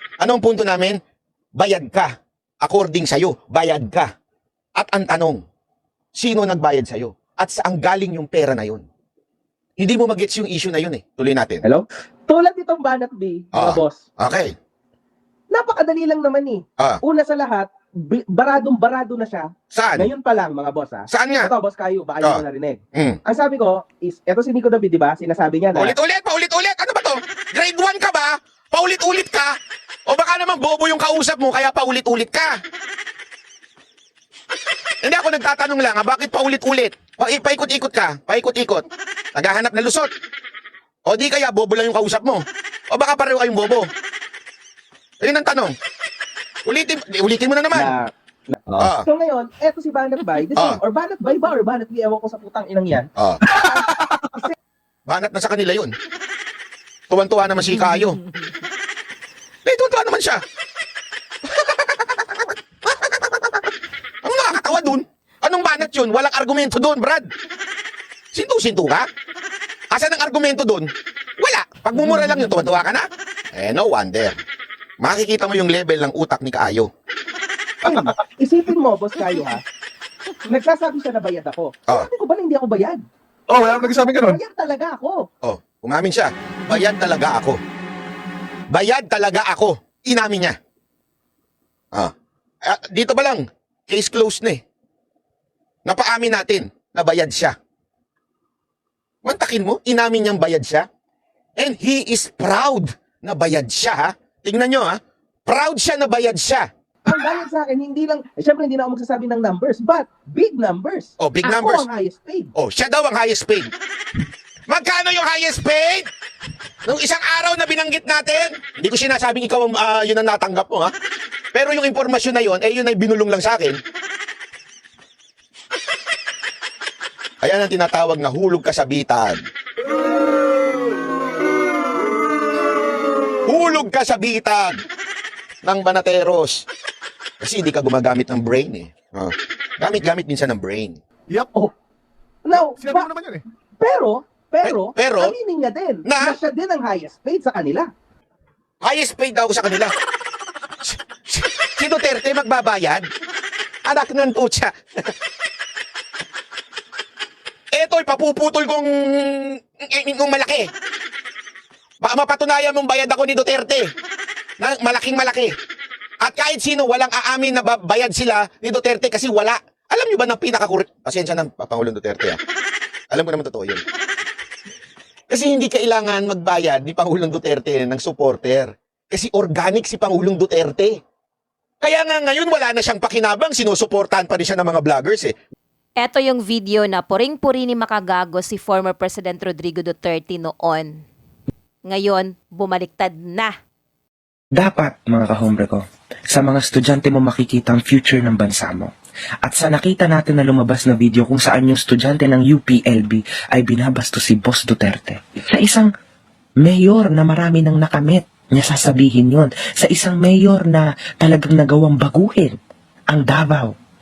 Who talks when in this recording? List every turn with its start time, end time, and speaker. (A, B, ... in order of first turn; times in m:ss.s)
0:00.2-0:01.0 A
0:01.6-0:04.1 A
0:04.8-0:05.4 A
0:06.1-0:08.8 A
0:09.8-0:11.6 A
0:11.6-0:14.0 B
0:13.5-0:14.5 A
0:15.5-0:25.9 B
0:19.7-0:20.1 A
0:21.1-0:21.5 A
0:25.8-0:29.5 A
0:30.1-0:32.6 A
0:35.0-0:38.8 A
0:39.3-0:40.1 A
0:41.0-0:43.9 A
0:45.2-0:45.7 A
0:46.6-0:47.9 A
0:47.7-0:53.1 B
0:48.8-0:49.1 A
0:53.2-0:53.4 A
0:53.5-0:54.4 C
0:53.6-0:54.5 B
0:55.1-0:55.9 A
0:57.1-0:58.2 A
0:59.6-1:00.4 A
1:01.6-1:03.7 A
1:04.2-1:07.3 A
1:08.3-1:09.1 A
1:09.9-1:14.4 A
1:15.0-1:16.9 A
1:17.8-1:19.6 B
1:20.4-1:25.2 B
1:23.5-1:24.4 C
1:25.4-1:27.6 A
1:28.7-1:30.6 A
1:32.6-1:34.6 A
1:35.8-1:37.5 A
1:39.2-1:40.8 A
1:41.6-1:46.7 A
1:47.0-1:52.5 B
1:51.2-1:51.8 A
1:52.6-1:53.7 A
1:54.7-1:56.1 A
1:56.8-2:00.9 A
2:01.5-2:03.8 A
2:07.4-2:09.4 A
2:13.4-2:14.8 A
2:15.6-2:16.6 A
2:17.4-2:21.0 A
2:21.3-2:21.6 C
2:22.4-2:23.1 B
2:22.8-2:23.4 C
2:23.8-2:27.9 B
2:24.6-2:25.3 A
2:26.1-2:26.3 A
2:28.8-2:29.9 A
2:30.8-2:33.1 A
2:33.8-2:35.1 A
2:37.7-2:40.7 A
2:42.0-2:43.9 A
2:44.6-2:45.5 A
2:46.2-2:52.4 A
2:53.1-2:53.8 A
2:55.3-3:01.0 A
3:01.8-3:05.3 A
3:06.0-3:11.0 D
3:11.8-3:13.5 D
3:14.5-3:25.9 E
3:26.6-3:32.6 E
3:33.1-3:33.8 E